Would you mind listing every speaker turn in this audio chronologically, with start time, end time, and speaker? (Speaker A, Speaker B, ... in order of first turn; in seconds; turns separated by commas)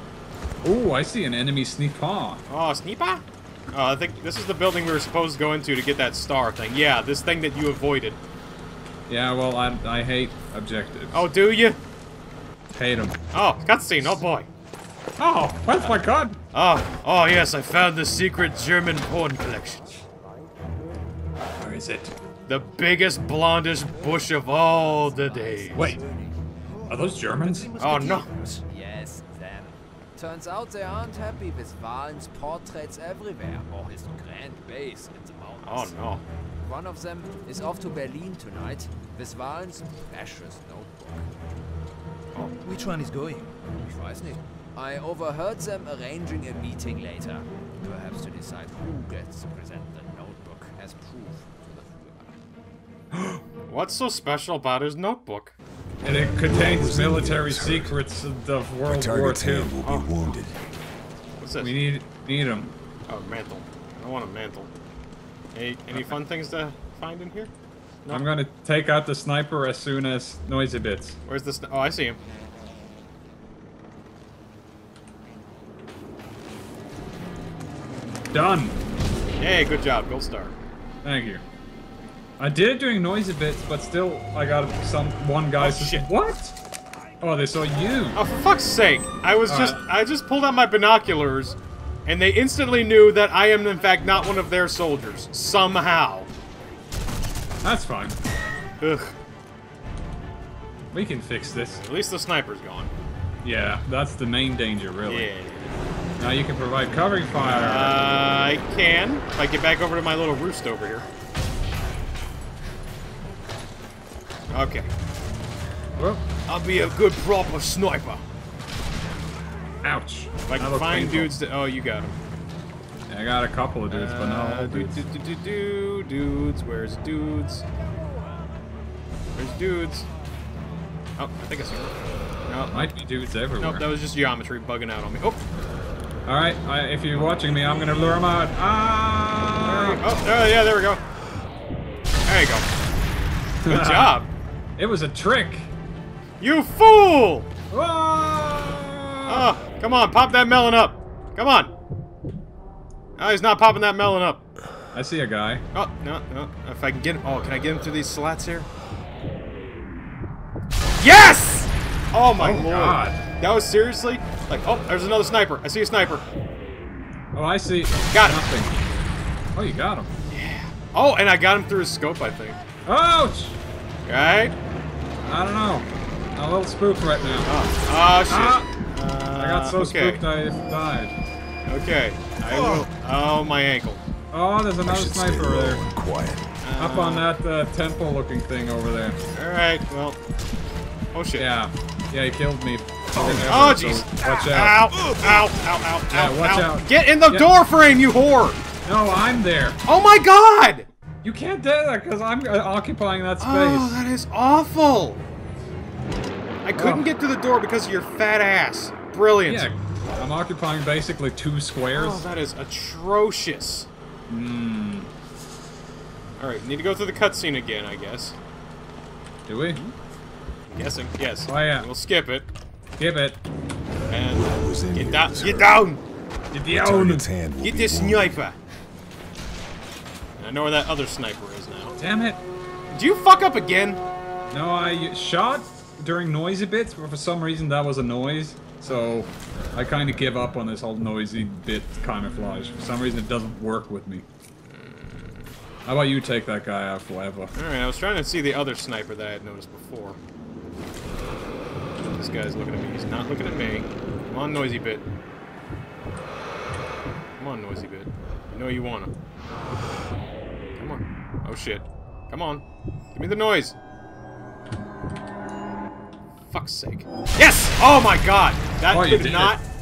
Speaker A: 0.6-2.4, Speaker B: 2.5-8.2, Speaker A: 9.1-11.3, Speaker B: 11.1-11.8, Speaker A: 12.7-13.2, Speaker B: 13.3-14.5, Speaker A: 15.2-16.4, Speaker B: 16.5-19.9, Speaker A: 21.6-22.1, Speaker B: 22.5-26.0, Speaker C: 23.9-36.0, Speaker A: 25.7-26.0, Speaker A: 26.9-27.7, Speaker B: 27.8-28.3, Speaker B: 35.6-36.2, Speaker C: 36.6-41.3, Speaker C: 42.6-52.4, Speaker B: 53.7-55.5, Speaker A: 56.0-59.8, Speaker D: 56.4-58.0, Speaker D: 58.9-60.6, Speaker B: 61.4-61.7, Speaker A: 61.6-62.7, Speaker B: 63.1-64.7, Speaker B: 65.5-67.5, Speaker A: 68.1-71.2, Speaker B: 71.3-72.2, Speaker A: 78.3-78.8, Speaker B: 79.4-80.6, Speaker A: 81.0-81.4, Speaker A: 82.4-86.5, Speaker B: 85.6-86.1, Speaker A: 87.2-88.2, Speaker B: 88.2-91.5, Speaker A: 89.5-89.8, Speaker B: 92.1-96.3, Speaker A: 97.6-98.2, Speaker B: 98.8-99.2, Speaker A: 100.9-101.8, Speaker B: 101.6-102.9, Speaker A: 103.4-105.3, Speaker B: 105.0-105.8, Speaker A: 106.2-108.0, Speaker B: 107.3-111.1, Speaker B: 114.5-114.9, Speaker A: 116.0-116.2, Speaker B: 116.5-118.2, Speaker A: 119.8-121.3, Speaker B: 120.5-122.2, Speaker A: 123.1-125.0, Speaker B: 123.9-127.7, Speaker B: 129.3-130.1, Speaker B: 131.2-132.0, Speaker B: 132.5-132.9, Speaker A: 132.7-133.9, Speaker B: 133.6-135.4, Speaker A: 136.3-140.0, Speaker B: 139.6-141.0, Speaker B: 142.3-142.7, Speaker A: 143.6-144.2, Speaker B: 143.7-144.3, Speaker A: 144.8-145.7, Speaker B: 146.4-147.5, Speaker A: 147.7-149.5, Speaker B: 149.3-151.7, Speaker B: 153.2-154.4, Speaker A: 154.9-155.7, Speaker B: 155.7-158.7, Speaker B: 161.0-166.3, Speaker A: 162.4-163.2, Speaker A: 167.3-168.8, Speaker B: 168.1-168.4, Speaker A: 169.6-170.1, Speaker B: 170.3-172.6, Speaker A: 172.9-173.6, Speaker B: 174.1-174.6, Speaker A: 175.2-177.5, Speaker B: 177.4-180.2, Speaker A: 178.3-178.7, Speaker A: 179.4-181.1, Speaker B: 181.7-184.0, Speaker A: 184.3-185.8, Speaker D: 184.8-186.5, Speaker B: 186.6-187.3, Speaker A: 186.8-189.2, Speaker B: 189.3-190.2, Speaker B: 191.1-191.5, Speaker A: 191.4-194.8, Speaker B: 193.2-198.6, Speaker A: 196.1-197.5, Speaker A: 198.8-199.8, Speaker B: 199.9-200.9, Speaker A: 201.2-204.0, Speaker B: 203.4-205.2, Speaker B: 206.6-209.7, Speaker A: 206.8-207.1, Speaker A: 209.5-212.2, Speaker B: 211.9-213.9, Speaker A: 214.3-215.1, Speaker B: 216.4-218.4, Speaker A: 219.5-219.8, Speaker B: 220.7-222.5, Speaker A: 221.5-221.9, Speaker A: 223.0-223.4, Speaker B: 224.1-226.0, Speaker D: 224.3-225.9, Speaker A: 226.5-227.3, Speaker D: 226.7-228.4, Speaker B: 227.6-228.6, Speaker B: 230.4-232.0, Speaker A: 232.0-232.4, Speaker B: 232.9-234.0, Speaker A: 234.5-244.3, Speaker B: 242.2-243.0, Speaker B: 244.7-245.5, Speaker A: 245.8-247.5, Speaker B: 247.6-250.2, Speaker B: 252.1-255.1, Speaker B: 257.4-259.1, Speaker B: 260.8-263.8, Speaker B: 266.5-269.6, Speaker A: 268.9-269.6